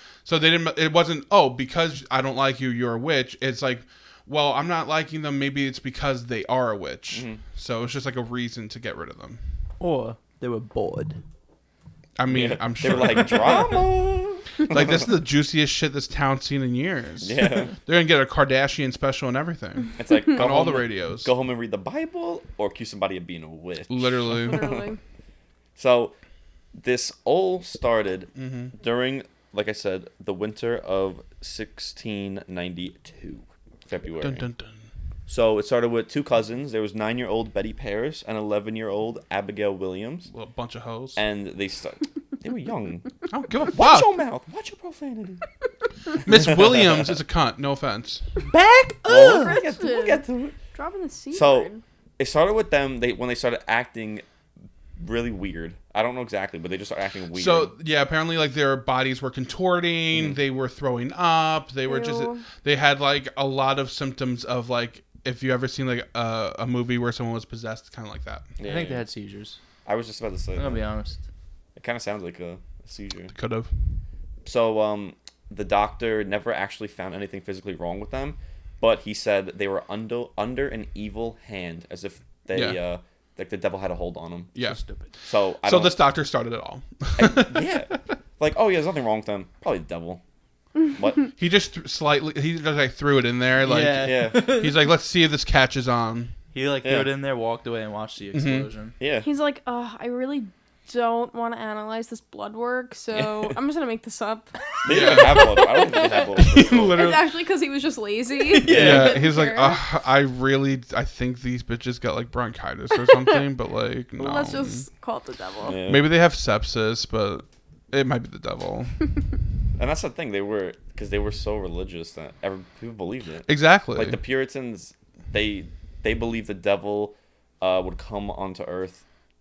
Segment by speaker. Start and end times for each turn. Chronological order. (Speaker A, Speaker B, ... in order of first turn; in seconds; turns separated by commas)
Speaker A: 0.2-9.4, Speaker B: 7.1-7.4, Speaker C: 9.8-11.2, Speaker A: 12.2-13.7, Speaker B: 12.3-15.0, Speaker A: 14.7-21.3, Speaker B: 17.2-17.7, Speaker B: 20.0-24.9, Speaker A: 23.9-24.7, Speaker D: 24.4-25.0, Speaker B: 25.8-26.1, Speaker B: 26.7-34.5, Speaker A: 28.4-28.7, Speaker A: 34.2-34.8, Speaker B: 35.3-40.3, Speaker A: 40.3-41.2, Speaker B: 41.2-43.1, Speaker A: 43.3-44.1, Speaker B: 43.7-45.4, Speaker A: 46.2-48.2, Speaker B: 46.2-47.1, Speaker C: 48.4-49.6, Speaker B: 49.0-50.6, Speaker D: 49.1-51.8, Speaker B: 51.3-54.2, Speaker B: 55.0-57.7, Speaker A: 57.3-68.5, Speaker B: 60.1-60.4, Speaker D: 61.9-62.4, Speaker B: 68.6-69.0, Speaker C: 68.6-69.6, Speaker B: 69.9-70.8, Speaker C: 70.6-71.2, Speaker B: 71.8-73.3, Speaker A: 73.3-73.7, Speaker B: 74.5-84.5, Speaker A: 82.5-82.8, Speaker A: 84.5-84.8, Speaker C: 84.6-85.1, Speaker B: 85.2-86.0, Speaker A: 85.6-88.0, Speaker B: 87.2-90.2, Speaker B: 90.9-91.3, Speaker A: 91.4-96.3, Speaker C: 93.6-94.8, Speaker B: 94.0-94.5, Speaker C: 96.5-98.9, Speaker B: 96.8-97.1, Speaker A: 98.3-98.7, Speaker B: 99.0-99.3, Speaker D: 99.2-109.8, Speaker B: 103.1-103.5, Speaker B: 104.8-107.0, Speaker A: 104.9-105.6, Speaker A: 106.4-107.2, Speaker C: 108.5-109.2, Speaker B: 108.6-109.2, Speaker A: 108.7-114.9, Speaker D: 112.9-113.4, Speaker D: 114.2-115.8, Speaker B: 115.6-116.1, Speaker A: 115.8-119.0, Speaker B: 119.8-129.1, Speaker A: 123.5-124.2